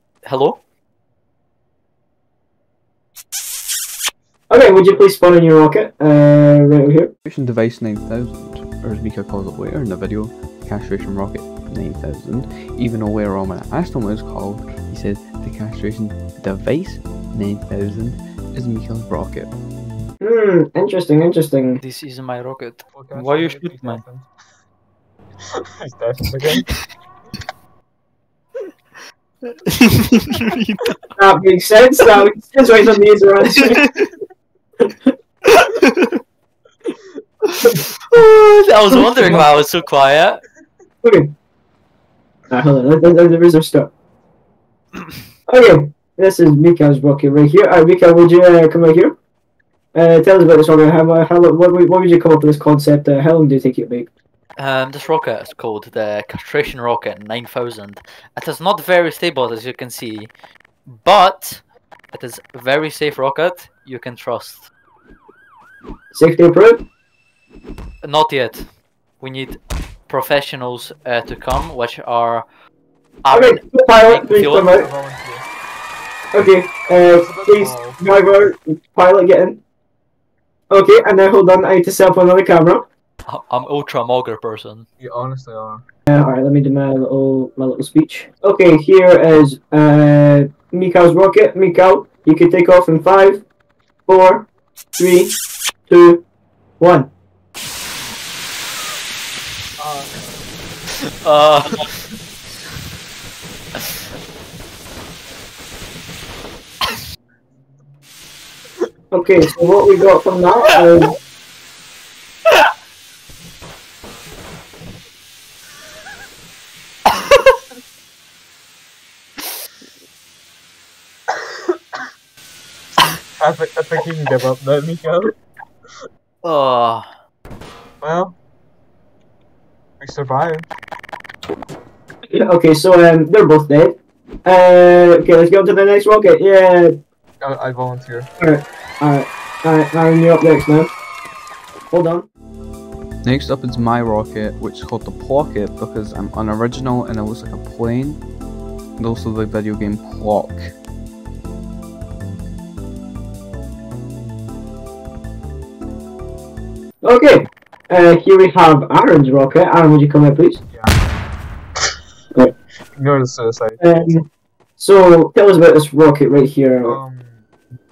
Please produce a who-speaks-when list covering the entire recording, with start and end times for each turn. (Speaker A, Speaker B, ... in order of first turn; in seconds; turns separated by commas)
Speaker A: 0.2-0.6, Speaker B: 4.5-7.1, Speaker C: 4.6-5.1, Speaker D: 7.2-19.5, Speaker B: 20.2-21.8, Speaker A: 21.8-24.0, Speaker C: 22.9-24.3, Speaker C: 25.8-26.7, Speaker A: 29.8-31.1, Speaker B: 31.2-33.9, Speaker A: 33.6-34.1, Speaker A: 35.5-36.2, Speaker A: 37.5-40.4, Speaker B: 39.2-39.4, Speaker B: 41.0-41.3, Speaker B: 42.5-43.9, Speaker B: 45.5-49.2, Speaker B: 50.0-54.1, Speaker A: 54.6-60.3, Speaker A: 60.9-64.7, Speaker B: 66.1-66.8, Speaker A: 68.0-72.5, Speaker A: 73.2-74.7, Speaker B: 73.3-74.9, Speaker C: 74.5-75.4, Speaker B: 76.3-79.6, Speaker C: 77.0-78.1, Speaker B: 80.7-82.8, Speaker A: 83.3-84.9, Speaker C: 85.0-85.8, Speaker B: 86.1-93.5, Speaker B: 94.1-95.3, Speaker B: 95.9-96.2, Speaker B: 96.8-97.1, Speaker C: 99.8-100.2, Speaker A: 101.2-101.9, Speaker B: 109.1-111.2, Speaker C: 123.4-125.3, Speaker A: 126.4-127.1, Speaker C: 128.0-128.4, Speaker C: 130.0-130.7, Speaker B: 132.3-136.9, Speaker C: 137.4-138.3, Speaker B: 138.4-140.9, Speaker B: 141.9-142.3, Speaker D: 143.2-148.2, Speaker D: 149.0-150.8, Speaker B: 157.0-160.6, Speaker C: 160.7-161.0, Speaker C: 162.9-164.2, Speaker B: 163.8-164.3, Speaker B: 164.8-167.0, Speaker C: 166.8-167.5